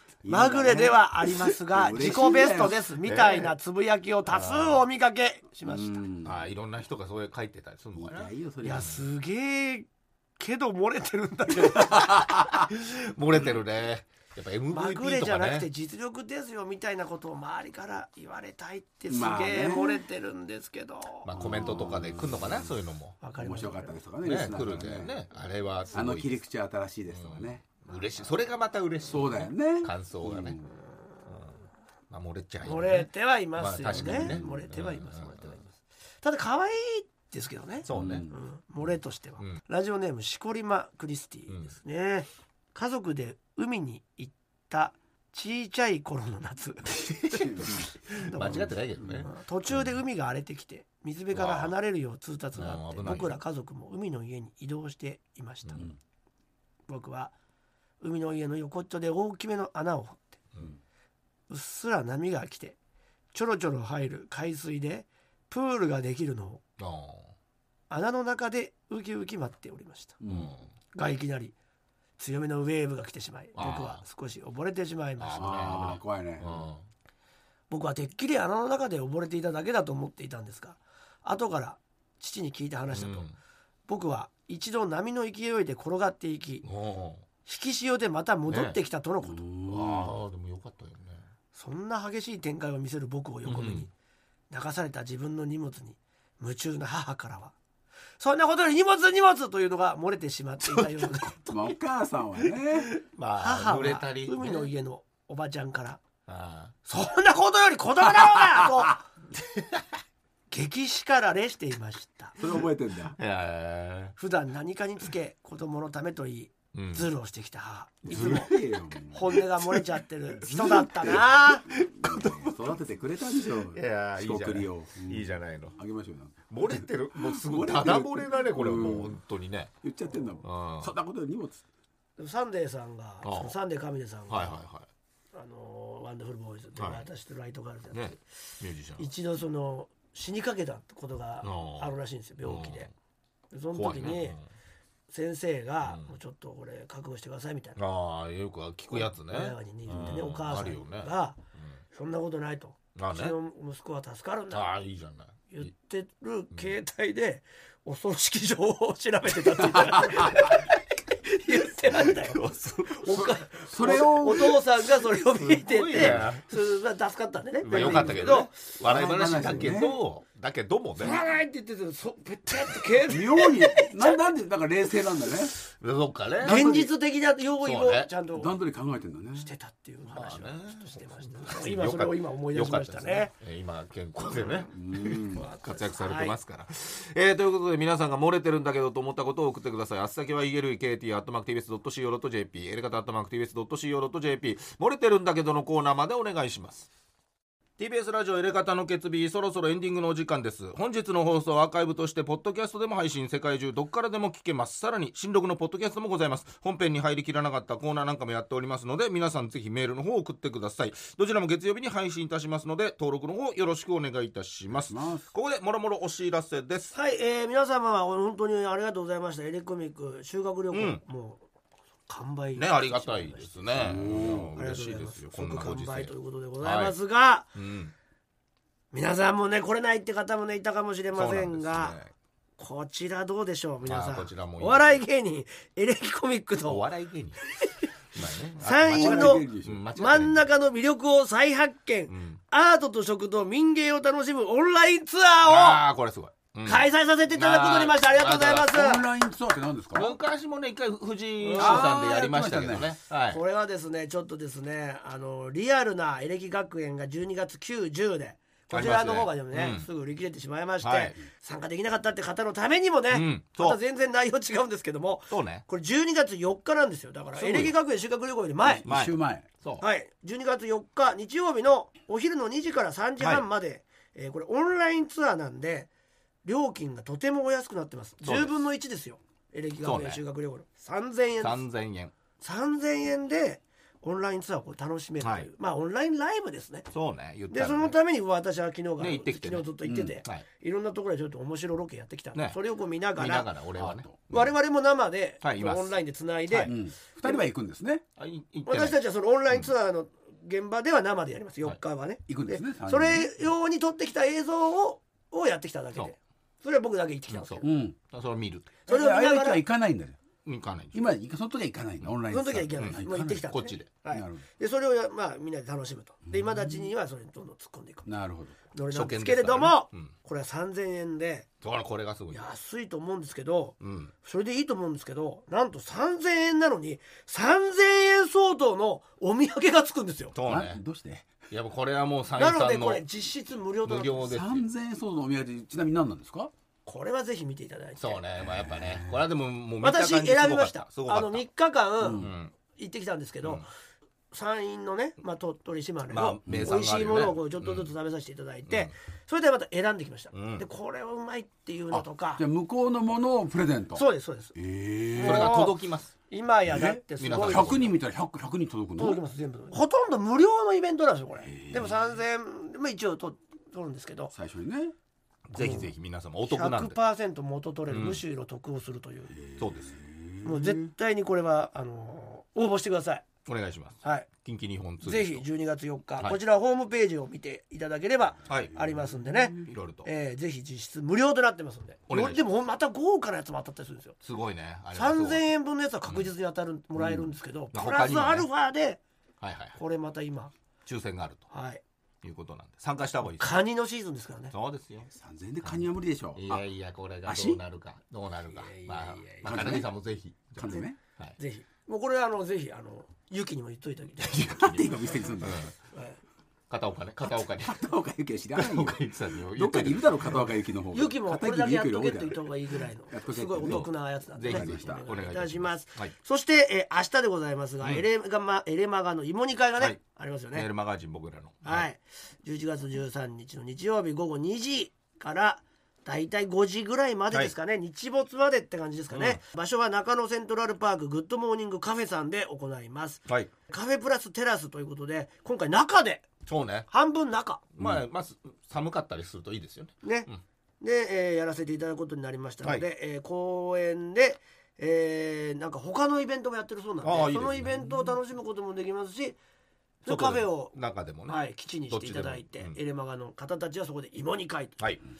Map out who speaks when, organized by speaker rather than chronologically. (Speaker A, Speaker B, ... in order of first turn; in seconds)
Speaker A: 0.2-1.0, 1.7-2.8, 5.7-6.4, 8.0-9.0, 19.1-20.0, 21.4-22.7, 23.4-25.2, 25.9-27.6, 29.1-30.7, 33.9-34.6, 37.9-38.4, 47.5-47.8, 70.2-70.5, 75.4-76.7, 89.2-90.1, 101.5-102.9, 112.4-113.2, 118.0-119.4, 121.7-129.2, 129.8-131.6, 163.6-164.6, 165.9-166.2, 167.7-170.0, 173.1-175.6, 176.4-176.9, 178.3-179.5, 184.7-185.4, 214.9-215.2, 223.8-224.5, 238.9-239.8, 248.6-250.2, 251.6-252.9, 268.6-269.4, 289.8-290.2, 293.8-294.1, 296.6-298.0, 302.3-303.3, 307.6-308.0, 308.9-310.2, 310.9-313.5, 314.1-314.4, 316.3-316.6, 318.1-318.6, 330.4-331.4, 334.2-336.5, 338.4-339.2, 342.0-342.3, 346.4-346.7, 352.3-355.6, 356.7-359.2, 361.4-361.9, 364.3-364.9, 369.3-370.9, 378.7-379.7, 395.1-396.6, 397.2-397.6, 399.4-399.9, 400.5-401.0, 404.4-405.7, 407.3-412.4, 413.1-413.9, 414.5-415.0
Speaker B: 0.3-6.0, 8.6-9.9, 10.4-12.2, 14.7-21.3, 23.2-24.0, 32.6-47.0, 48.3-55.9, 56.9-57.3, 58.0-60.4, 61.5-62.8, 63.3-66.6, 67.9-70.2, 70.9-71.5, 72.2-75.9, 77.7-83.2, 83.9-86.6, 87.5-89.4, 91.5-93.9, 94.5-97.5, 98.2-101.6, 103.4-106.0, 106.9-109.0, 110.5-112.3, 114.2-118.5, 119.1-121.6, 132.2-134.6, 135.3-138.2, 139.0-142.9, 143.5-144.4, 145.1-147.8, 148.9-151.4, 151.9-154.6, 155.5-160.6, 161.2-162.4, 162.9-168.5, 171.0-174.1, 176.4-178.5, 179.4-183.3, 184.3-184.7, 185.3-186.3, 216.9-221.4, 222.1-223.7, 224.5-227.5, 228.9-232.0, 232.6-236.9, 237.5-237.9, 238.6-245.8, 246.6-249.1, 251.4-251.9, 253.3-268.9, 269.8-275.9, 276.4-281.6, 282.4-286.9, 287.5-293.5, 294.3-296.7, 298.7-307.7, 308.9-309.6, 312.3-318.1, 318.7-321.5, 322.3-330.3, 332.4-334.3, 336.9-338.2, 339.8-343.6, 344.3-352.4, 353.9-354.5, 355.1-355.8, 356.3-357.9, 359.0-364.3, 365.6-365.9, 366.5-369.3, 370.4-373.2, 374.0-374.3, 375.0-384.2, 384.9-389.0, 389.8-390.5, 391.5-391.8, 393.4-394.5, 398.5-399.6, 401.4-404.7, 405.9-406.2, 410.9-420.6, 421.6-436.3, 436.9-437.6, 440.0-440.3, 440.8-449.4, 450.0-450.7, 451.3-454.8
Speaker C: 3.0-3.5, 4.3-4.8, 6.2-9.0, 11.8-15.7, 21.2-23.2, 24.2-26.4, 27.1-30.6, 31.3-31.5, 32.1-35.5, 37.8-38.3, 46.9-49.9, 51.3-51.7, 52.5-53.4, 66.8-67.3, 70.3-70.7, 73.5-74.0, 75.2-76.8, 82.9-83.3, 86.6-87.2, 88.5-88.8, 89.7-91.2, 93.4-93.9, 100.7-101.2, 102.6-104.7, 106.3-106.7, 113.2-114.1, 116.7-117.1, 118.1-118.7, 120.4-122.6, 123.5-125.8, 126.5-129.7, 130.4-130.9, 133.2-133.5, 134.3-134.9, 136.8-137.0, 137.9-139.0, 141.4-142.9, 143.7-144.4, 147.8-151.8, 152.9-153.3, 154.5-155.5, 160.1-160.7, 161.8-163.3, 165.4-166.4, 167.6-171.2, 175.7-176.9, 177.6-178.1, 180.1-196.9, 197.8-216.9, 220.7-221.0, 222.6-226.9, 227.5-227.9, 231.1-232.1, 233.8-235.0, 236.6-237.4, 238.1-240.4, 242.1-242.4, 245.4-248.7, 249.9-253.4, 258.7-259.9, 260.8-261.2, 263.1-263.8, 265.3-265.6, 267.4-267.7, 268.8-269.8, 278.2-278.6, 279.8-280.2, 281.4-282.1, 285.2-285.5, 286.9-287.9, 289.0-290.4, 293.1-294.5, 295.4-295.9, 298.2-299.0, 307.3-308.7, 310.4-311.0, 312.8-313.9, 318.9-320.1, 321.6-322.4, 323.8-324.1, 330.3-330.8, 331.5-333.0, 333.8-334.6, 338.0-341.4, 342.1-342.5, 346.1-347.9, 348.7-348.9, 350.3-350.6, 355.2-356.1, 357.2-357.9, 365.5-366.9, 367.9-368.2, 369.6-369.9, 373.4-375.4, 378.4-378.8, 379.6-380.1, 382.1-382.4, 384.2-385.4, 387.7-388.5, 389.4-389.8, 390.9-391.5, 392.2-393.6, 394.5-395.1, 395.6-401.4, 404.4-404.9, 405.4-405.7, 406.7-407.9, 408.6-410.4, 413.6-416.1, 420.5-421.9, 429.1-429.4, 436.5-436.9, 437.8-440.4, 447.0-447.7, 450.1-452.8